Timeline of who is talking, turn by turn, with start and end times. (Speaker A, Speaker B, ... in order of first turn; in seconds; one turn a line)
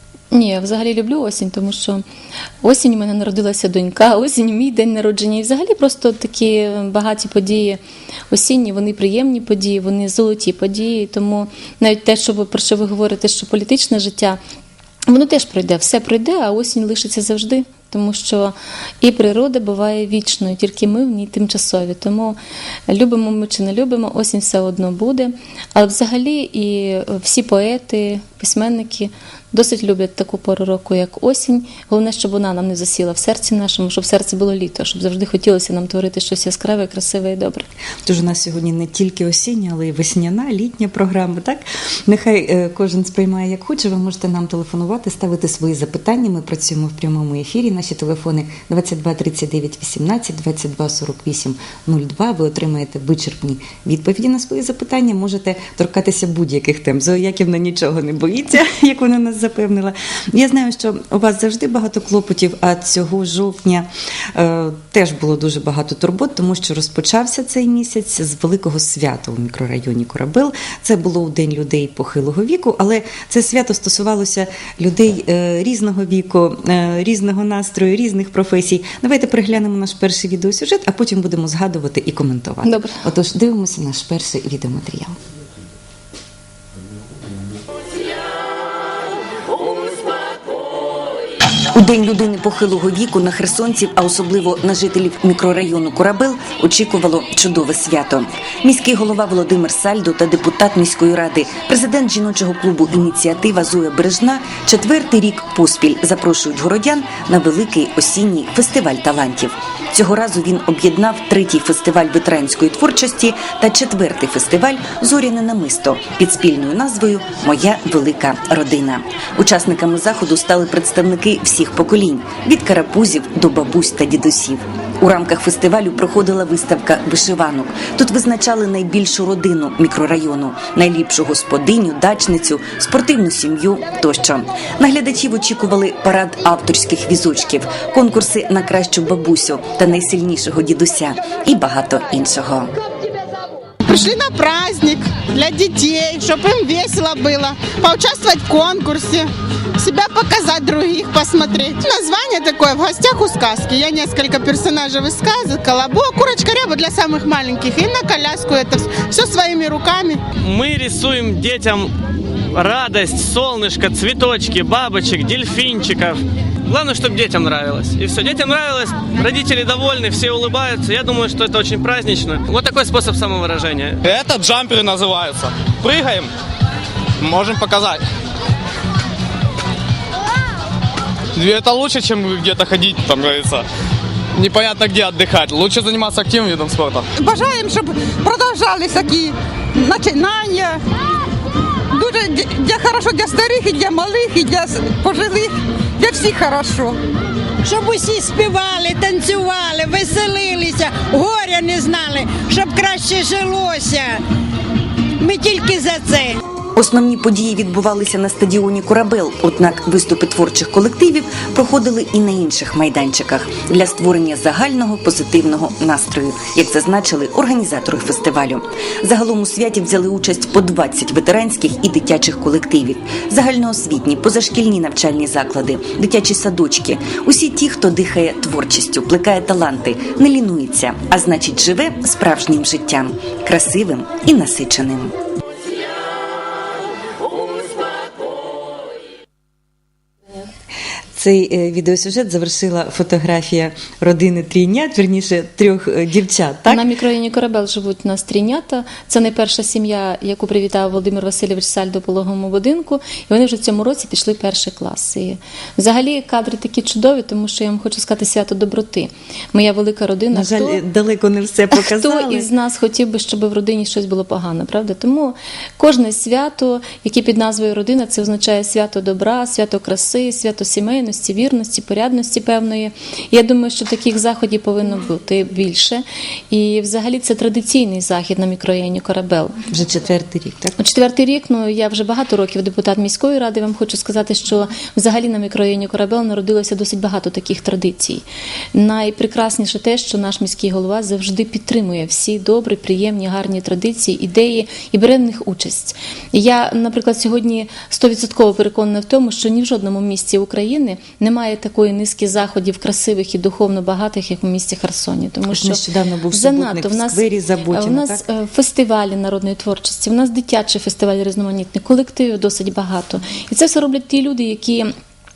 Speaker A: 0.3-2.0
Speaker A: 2.6-7.8
Speaker A: 8.3-14.4
Speaker A: 15.1-22.4
Speaker A: 22.9-37.7
Speaker B: 38.0-85.1
Speaker A: 82.7-83.0
Speaker B: 91.7-142.7
Speaker C: 143.8-160.2
Speaker D: 160.4-161.9
Speaker D: 162.5-174.0
Speaker E: 174.0-176.3
Speaker E: 177.2-178.0
Speaker E: 181.3-183.6
Speaker E: 184.3-187.1
Speaker F: 187.1-190.8
Speaker F: 191.9-197.0
Speaker G: 197.6-204.2
Speaker G: 205.2-206.4
Speaker B: 206.7-235.1
Speaker B: 241.1-246.8
Speaker A: 246.7-260.8
Speaker B: 260.3-262.5
Speaker A: 261.7-279.5
Speaker B: 279.7-280.8
Speaker A: 280.8-305.8
Speaker B: 305.5-308.2
Speaker A: 306.3-314.9